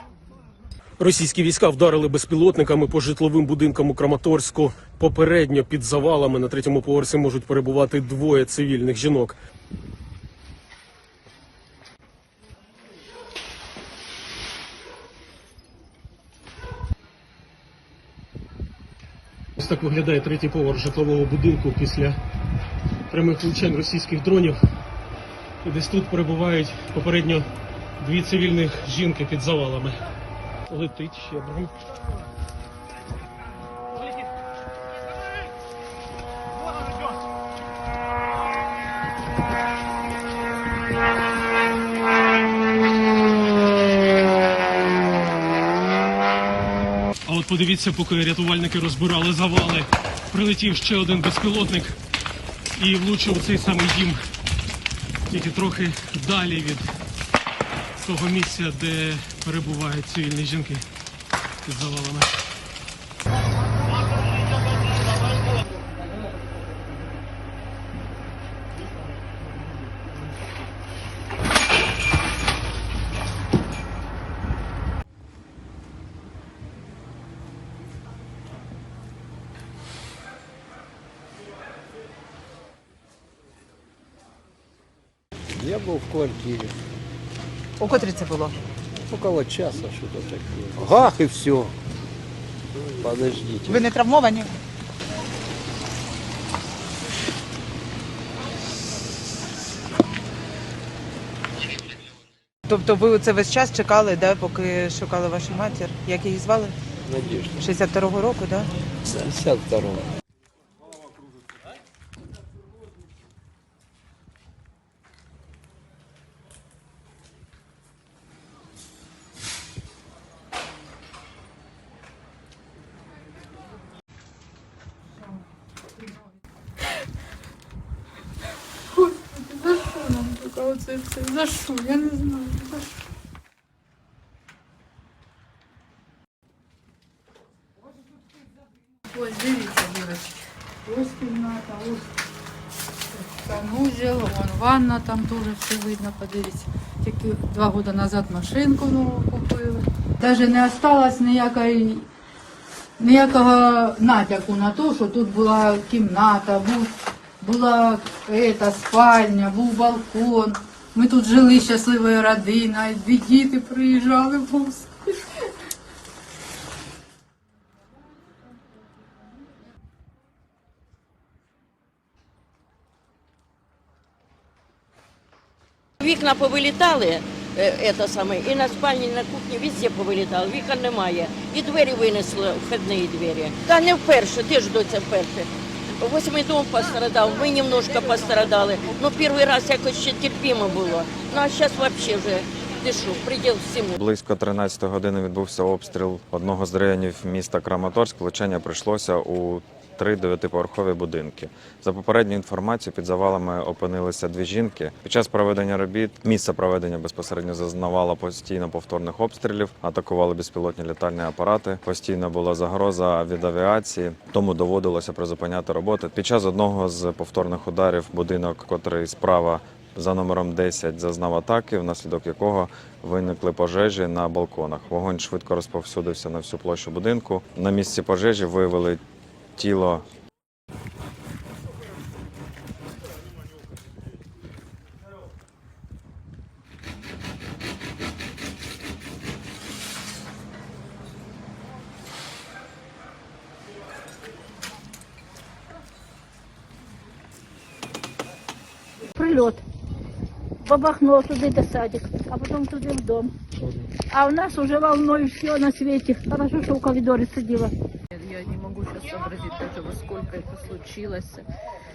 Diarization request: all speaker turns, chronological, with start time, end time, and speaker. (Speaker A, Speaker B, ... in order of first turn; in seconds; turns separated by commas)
Speaker A: 1.0-9.4, Speaker A: 19.6-22.2, Speaker A: 23.1-24.6, Speaker A: 25.6-27.5, Speaker A: 28.0-30.0, Speaker A: 30.7-31.7, Speaker A: 47.3-52.0, Speaker A: 52.8-54.2, Speaker A: 55.3-57.0, Speaker A: 58.0-60.9, Speaker A: 61.6-62.3, Speaker B: 85.5-86.8, Speaker C: 87.8-88.5, Speaker B: 89.1-91.7, Speaker B: 92.9-93.8, Speaker C: 93.7-94.5, Speaker C: 102.7-106.7, Speaker B: 107.1-107.6, Speaker C: 107.6-108.7, Speaker B: 109.1-110.1, Speaker D: 129.0-133.0, Speaker D: 139.1-142.1, Speaker D: 143.1-152.1, Speaker D: 153.0-165.2, Speaker E: 176.0-193.9, Speaker F: 194.0-229.0, Speaker F: 229.6-230.1, Speaker G: 249.1-249.6, Speaker G: 250.6-253.3, Speaker G: 254.1-257.7, Speaker H: 258.1-261.5